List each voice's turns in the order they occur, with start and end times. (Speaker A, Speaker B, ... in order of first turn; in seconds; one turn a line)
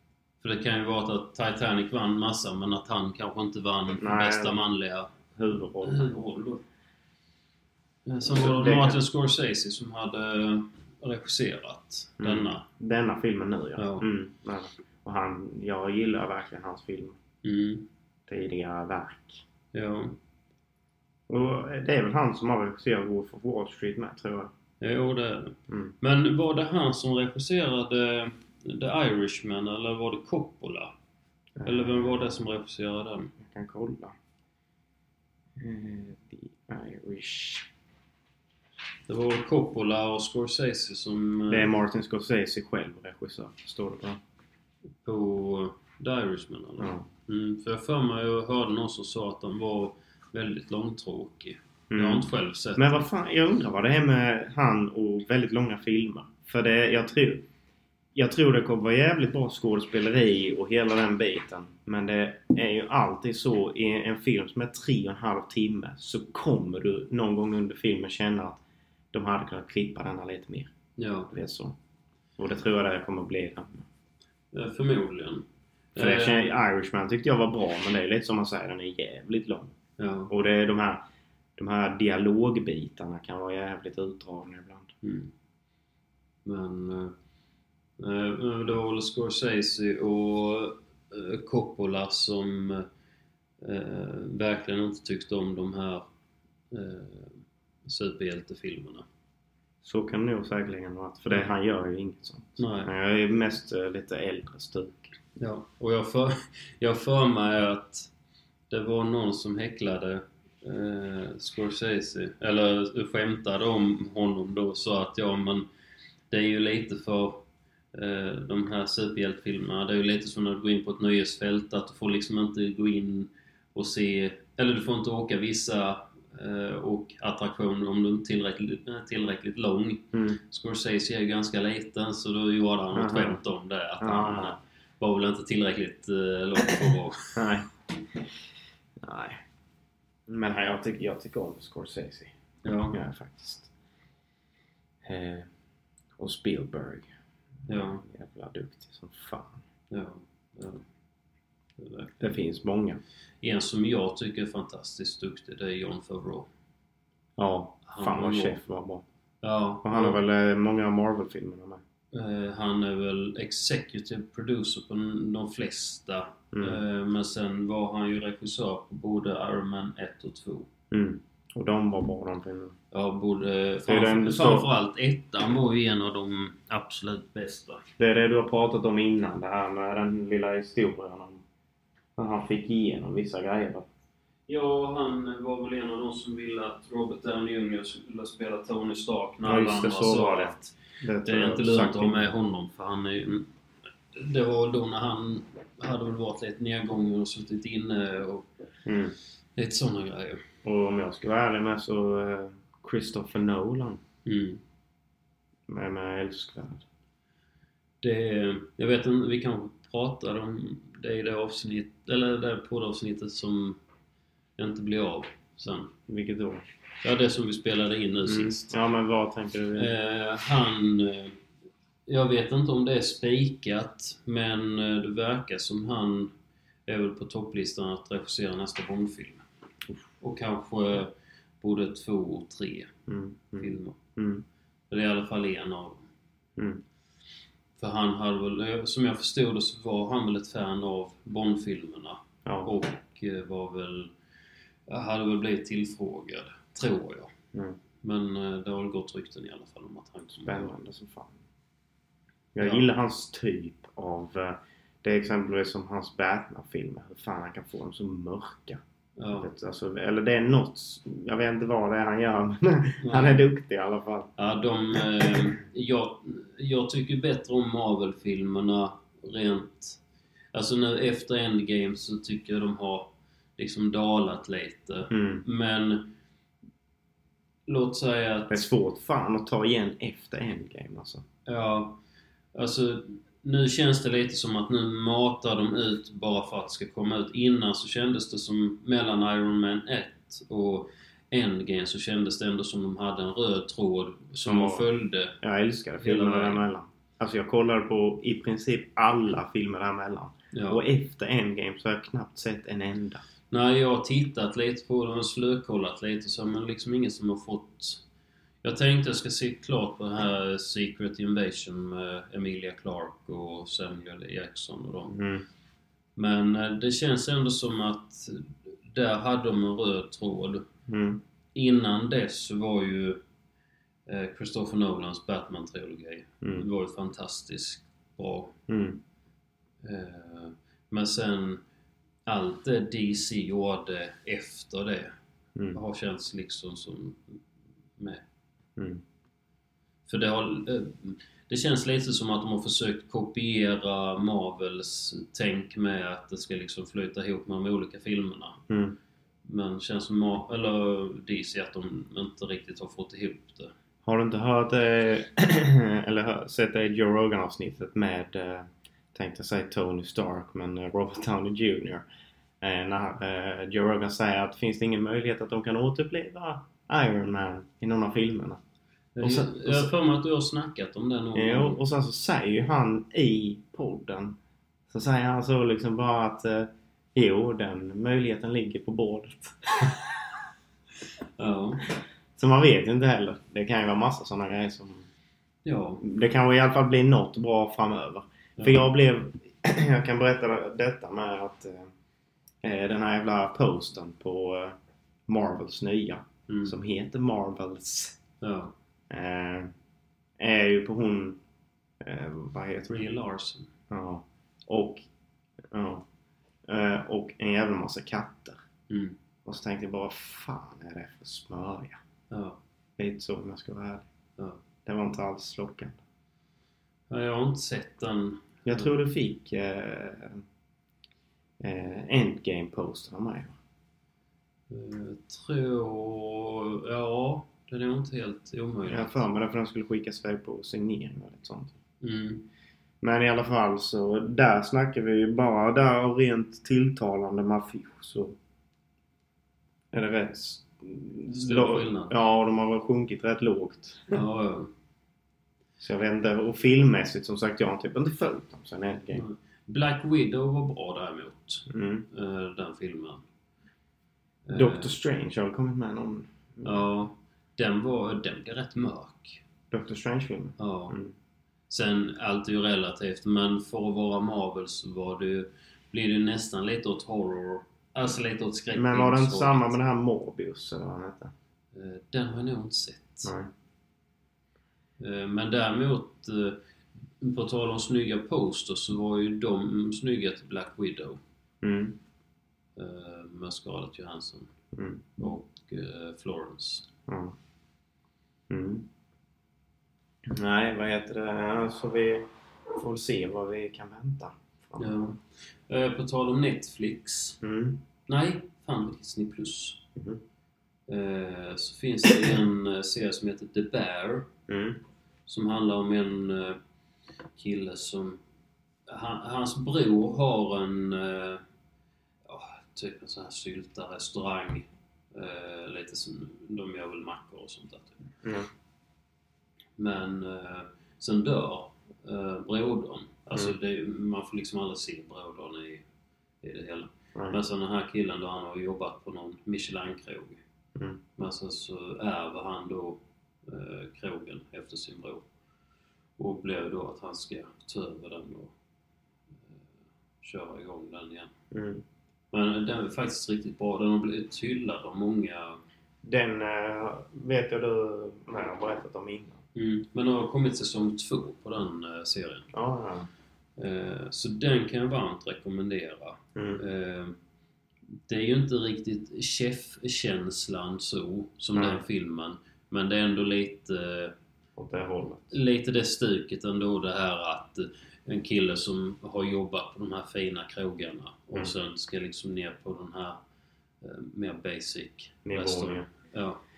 Speaker A: 0.4-5.1
Speaker B: 4.0-4.6
Speaker B: 5.3-6.1
Speaker A: 5.8-6.6
Speaker A: 8.1-12.6
Speaker B: 8.2-9.0
Speaker B: 12.2-17.2
Speaker A: 13.8-14.1
Speaker A: 17.4-17.9
Speaker B: 18.3-19.4
Speaker A: 19.7-20.1
Speaker B: 21.3-24.5
Speaker A: 24.8-30.9
Speaker B: 25.7-25.9
Speaker B: 31.6-32.3
Speaker A: 31.6-33.3
Speaker B: 33.4-34.1
Speaker B: 35.6-37.7
Speaker A: 39.1-41.7
Speaker B: 41.5-44.2
Speaker A: 45.0-53.0
Speaker B: 46.8-47.1
Speaker B: 51.9-57.5
Speaker B: 58.1-68.6
Speaker B: 69.1-70.7
Speaker A: 71.0-71.3
Speaker B: 71.3-71.8
Speaker B: 72.4-73.8
Speaker A: 74.5-76.5
Speaker B: 76.0-79.7
Speaker A: 80.0-80.3
Speaker B: 80.3-81.0
Speaker B: 81.6-84.9
Speaker A: 85.0-85.3
Speaker A: 86.4-87.1
Speaker A: 88.0-92.8
Speaker A: 93.6-96.1
Speaker A: 96.7-99.0
Speaker B: 99.8-105.1
Speaker A: 102.6-102.9
Speaker A: 105.4-108.1
Speaker A: 108.7-115.7
Speaker A: 116.3-137.3
Speaker B: 130.1-130.4
Speaker B: 132.9-133.4
Speaker B: 134.0-134.6
Speaker B: 137.3-138.3
Speaker B: 139.0-139.4
Speaker B: 140.3-142.3
Speaker A: 142.6-143.0
Speaker B: 142.9-143.7
Speaker B: 145.0-145.5
Speaker B: 146.2-147.1
Speaker A: 147.7-148.0
Speaker B: 147.7-149.6
Speaker A: 149.9-150.8
Speaker A: 151.8-152.2
Speaker B: 152.2-153.0
Speaker A: 153.4-156.5
Speaker B: 157.4-159.0
Speaker A: 157.9-158.6
Speaker A: 159.4-160.2
Speaker B: 159.8-161.8
Speaker A: 162.1-170.7
Speaker B: 166.5-166.8
Speaker B: 170.9-172.8
Speaker A: 172.9-177.8
Speaker B: 173.9-174.7
Speaker B: 178.0-181.4
Speaker B: 182.2-183.9
Speaker A: 184.5-193.5
Speaker B: 189.4-192.3
Speaker A: 194.1-198.5
Speaker B: 198.8-199.1
Speaker A: 199.6-200.4
Speaker B: 200.6-204.0
Speaker A: 204.2-204.6
Speaker B: 205.7-206.8
Speaker A: 208.0-213.8
Speaker A: 214.6-215.9
Speaker B: 216.1-216.6
Speaker A: 217.0-218.7
Speaker B: 218.2-219.9
Speaker A: 219.8-221.4
Speaker A: 222.1-226.3
Speaker A: 226.9-229.4
Speaker A: 230.2-232.9
Speaker B: 233.1-234.4
Speaker A: 233.6-234.0
Speaker A: 234.9-236.0
Speaker B: 236.6-236.8
Speaker A: 237.8-244.1
Speaker B: 242.4-242.7
Speaker A: 244.9-247.3
Speaker A: 248.0-250.7
Speaker B: 250.4-251.4
Speaker B: 252.5-258.8
Speaker A: 252.6-252.9
Speaker A: 259.2-259.5
Speaker B: 259.4-264.3
Speaker A: 263.0-263.4
Speaker A: 264.4-270.0
Speaker B: 264.9-265.4
Speaker A: 270.5-276.1
Speaker B: 275.1-275.4
Speaker A: 277.7-278.7
Speaker B: 278.5-281.2
Speaker A: 281.4-282.0
Speaker A: 282.5-295.4
Speaker B: 294.4-294.9
Speaker B: 295.4-303.2
Speaker A: 296.0-296.6
Speaker A: 300.5-300.8
Speaker A: 303.5-308.0
Speaker A: 308.6-315.2
Speaker B: 315.1-315.4
Speaker A: 316.1-320.7
Speaker B: 320.9-321.2
Speaker A: 321.5-323.2
Speaker A: 324.1-328.5
Speaker B: 328.7-329.0
Speaker A: 329.8-331.6
Speaker A: 332.3-335.1
Speaker A: 335.7-337.4
Speaker A: 338.0-338.2
Speaker B: 338.8-339.0
Speaker A: 340.1-348.6
Speaker B: 348.7-349.0
Speaker A: 349.4-353.7
Speaker B: 354.0-362.0
Speaker B: 362.6-368.6
Speaker A: 369.1-371.8
Speaker B: 369.2-369.9
Speaker B: 371.3-374.4
Speaker B: 374.9-380.3
Speaker A: 381.4-381.9
Speaker B: 382.4-385.1
Speaker A: 385.6-386.0
Speaker B: 386.0-391.9
Speaker A: 388.6-388.9
Speaker B: 392.6-394.7
Speaker B: 395.3-398.2
Speaker A: 396.5-396.8
Speaker A: 398.4-398.7
Speaker B: 399.1-399.7
Speaker B: 400.4-401.4
Speaker B: 402.0-403.0
Speaker A: 402.9-403.7
Speaker B: 403.9-405.0
Speaker B: 405.7-406.1
Speaker B: 406.6-408.6
Speaker A: 408.9-409.1
Speaker B: 409.4-412.0
Speaker A: 412.3-412.6
Speaker B: 413.0-414.0
Speaker B: 414.8-416.0
Speaker A: 417.1-418.9
Speaker B: 418.6-420.4
Speaker B: 421.6-423.6
Speaker A: 424.7-429.2
Speaker B: 428.9-431.7
Speaker A: 432.0-432.4
Speaker B: 433.0-438.4
Speaker B: 439.9-444.2
Speaker A: 441.3-442.1
Speaker A: 444.1-444.7
Speaker B: 445.8-449.2
Speaker A: 449.1-453.2
Speaker B: 451.7-452.1
Speaker A: 454.4-454.9
Speaker B: 454.5-456.8
Speaker A: 456.6-459.4
Speaker B: 459.7-461.1
Speaker A: 460.6-461.0
Speaker A: 461.7-469.7
Speaker B: 468.7-471.3
Speaker A: 471.7-473.3
Speaker B: 473.2-473.5
Speaker A: 475.0-476.6
Speaker A: 477.2-481.2
Speaker B: 481.6-482.0
Speaker A: 482.8-484.5
Speaker B: 484.7-485.1
Speaker A: 485.2-486.9
Speaker B: 487.1-487.3
Speaker B: 488.5-488.9
Speaker B: 490.2-495.0
Speaker A: 494.8-497.4
Speaker B: 497.4-497.8
Speaker A: 498.1-499.8
Speaker B: 499.9-500.2
Speaker A: 500.9-504.3
Speaker B: 504.5-504.8
Speaker A: 505.3-506.6
Speaker A: 507.3-508.2
Speaker A: 508.9-511.4
Speaker A: 512.2-518.0
Speaker B: 518.2-518.5
Speaker A: 519.8-525.8
Speaker A: 526.4-530.4
Speaker A: 531.2-535.3
Speaker A: 536.2-538.5
Speaker A: 540.2-541.3
Speaker B: 541.5-541.8
Speaker A: 542.3-545.6
Speaker B: 546.0-549.4
Speaker A: 549.5-552.5
Speaker B: 552.5-553.1
Speaker A: 553.6-557.1
Speaker B: 556.3-556.6
Speaker A: 558.1-564.1
Speaker B: 561.5-561.8
Speaker B: 564.6-565.3
Speaker A: 565.3-573.2
Speaker A: 573.8-576.4
Speaker B: 575.2-575.9